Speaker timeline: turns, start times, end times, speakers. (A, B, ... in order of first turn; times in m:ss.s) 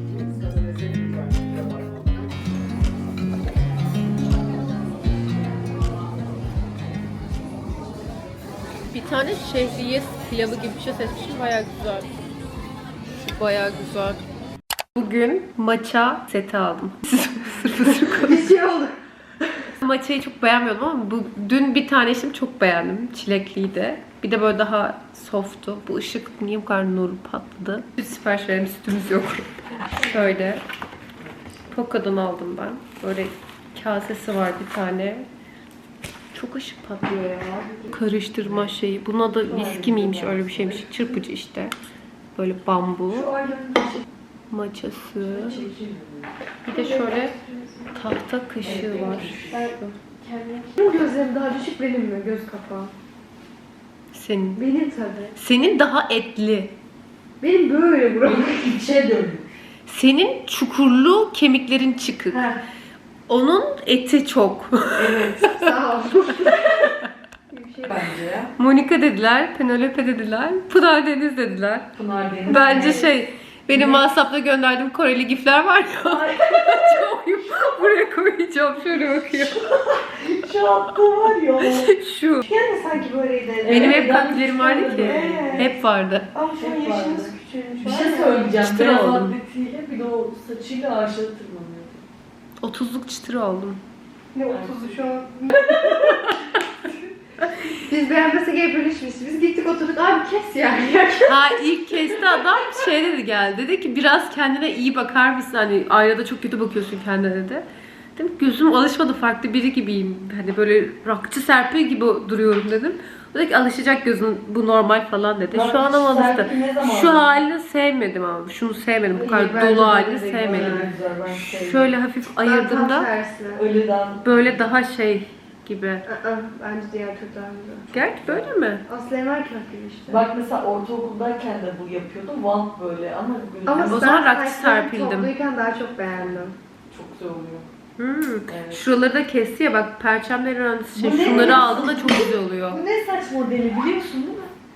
0:08.9-0:12.2 A
0:13.0-0:14.2 A
0:15.0-0:18.5 A
0:18.1-0:19.0 B
0:19.7-0:30.6 A
0:31.7-0:35.3 A
0:36.3-0:41.7 A
0:39.5-0:41.1 C
0:39.5-0:39.8 B
0:42.3-0:43.3 A
0:43.1-0:44.0 C
0:44.5-0:45.6 A
0:45.3-0:46.3 C
0:46.6-0:47.4 A
0:46.7-0:47.9 B
0:47.9-0:49.9 A
0:48.6-0:49.6 C
0:48.8-0:52.9 B
0:54.1-0:54.6 A
0:54.6-0:55.3 B
0:55.4-0:56.7 A
0:57.4-0:58.8 B
0:58.2-0:59.5 C
0:59.9-1:02.5 A
1:02.3-1:02.6 B
1:03.3-1:05.7 A
1:04.9-1:05.5 C
1:05.4-1:07.0 B
1:06.5-1:06.9 A
1:07.5-1:08.2 B
1:07.8-1:08.5 C
1:08.5-1:11.9 A
1:11.9-1:13.0 C
1:12.5-1:19.7 A
1:12.5-1:13.0 B
1:13.7-1:14.0 C
1:16.1-1:17.0 C
1:18.9-1:21.9 C
1:21.6-1:22.5 A
1:22.5-1:24.2 B
1:23.6-1:25.6 C
1:23.7-1:26.3 A
1:24.9-1:25.7 B
1:26.3-1:28.6 B
1:26.5-1:27.3 C
1:27.9-1:32.0 C
1:28.6-1:29.3 A
1:32.6-1:33.8 A
1:34.3-1:36.2 B
1:34.5-1:35.0 C
1:35.5-1:36.6 A
1:37.4-1:37.7 A
1:37.7-1:41.6 B
1:41.2-1:47.6 A
1:48.2-2:03.1 A
1:55.5-1:57.3 C
1:59.2-2:00.8 B
1:59.2-2:01.9 C
2:02.4-2:03.6 B
2:03.6-2:04.6 C
2:04.2-2:06.0 A
2:06.1-2:07.9 B
2:07.9-2:08.8 A
2:08.8-2:10.3 B
2:10.1-2:14.1 C
2:13.6-2:16.6 B
2:13.8-2:15.3 A
2:16.9-2:17.7 C
2:18.0-2:22.8 A
2:18.5-2:18.8 C
2:21.0-2:24.5 C
2:21.2-2:21.6 B